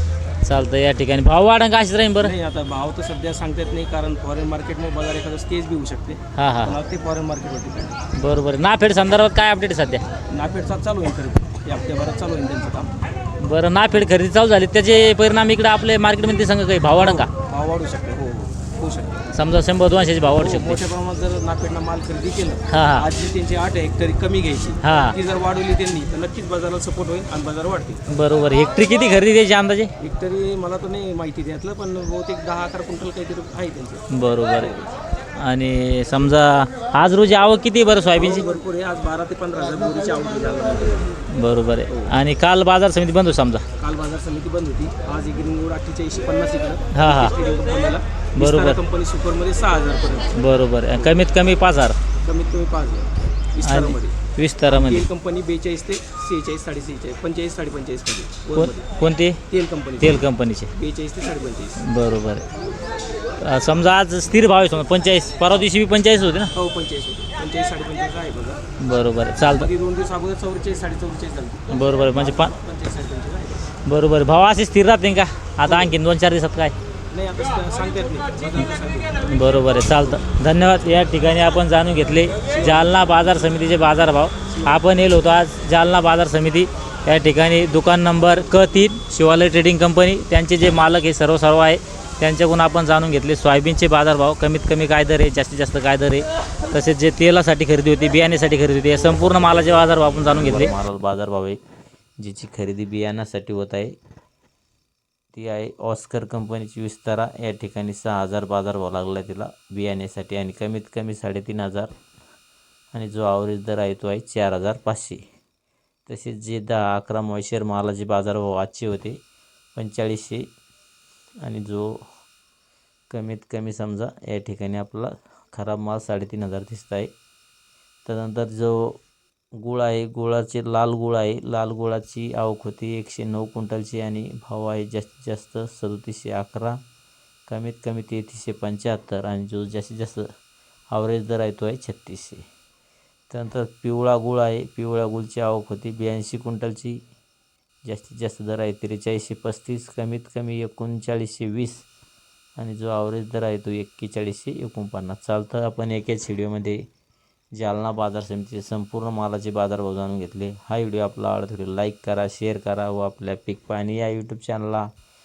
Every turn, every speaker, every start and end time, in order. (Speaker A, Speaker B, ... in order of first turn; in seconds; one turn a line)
Speaker A: 0.4-2.3
Speaker B: 2.2-8.0
Speaker A: 6.4-6.7
Speaker A: 8.2-10.0
Speaker B: 10.3-12.9
Speaker A: 13.4-17.3
Speaker B: 16.9-19.2
Speaker A: 19.3-20.8
Speaker B: 20.3-28.0
Speaker A: 22.7-23.0
Speaker A: 24.8-25.2
Speaker A: 28.1-29.9
Speaker B: 30.0-34.9
Speaker A: 34.1-34.6
Speaker A: 35.4-38.4
Speaker B: 38.1-41.1
Speaker A: 41.3-43.6
Speaker B: 43.8-50.4
Speaker A: 46.9-47.3
Speaker A: 48.4-48.8
Speaker A: 50.4-52.0
Speaker B: 50.9-51.3
Speaker B: 52.2-54.1
Speaker A: 53.6-55.0
Speaker B: 54.7-58.9
Speaker A: 58.5-59.4
Speaker B: 59.5-61.8
Speaker A: 60.0-60.7
Speaker A: 61.9-62.4
Speaker A: 63.4-66.5
Speaker B: 66.5-68.6
Speaker A: 68.8-69.7
Speaker B: 69.3-73.6
Speaker A: 71.7-72.5
Speaker A: 73.8-76.7
Speaker B: 75.6-75.9
Speaker B: 77.1-79.1
Speaker A: 79.3-100.7
Speaker B: 82.4-83.0
Speaker B: 84.5-84.8
Speaker C: 100.3-101.6
Speaker C: 102.2-103.9
Speaker C: 105.3-111.9
Speaker C: 112.9-115.2
Speaker C: 116.1-119.2
Speaker C: 119.7-120.4
Speaker C: 121.4-121.9
Speaker C: 123.1-127.1
Speaker C: 128.1-129.0
Speaker C: 129.6-136.8
Speaker C: 137.5-140.2
Speaker C: 140.9-142.4
Speaker C: 143.3-147.0
Speaker C: 147.9-151.8
Speaker C: 152.6-156.8
Speaker C: 157.6-164.8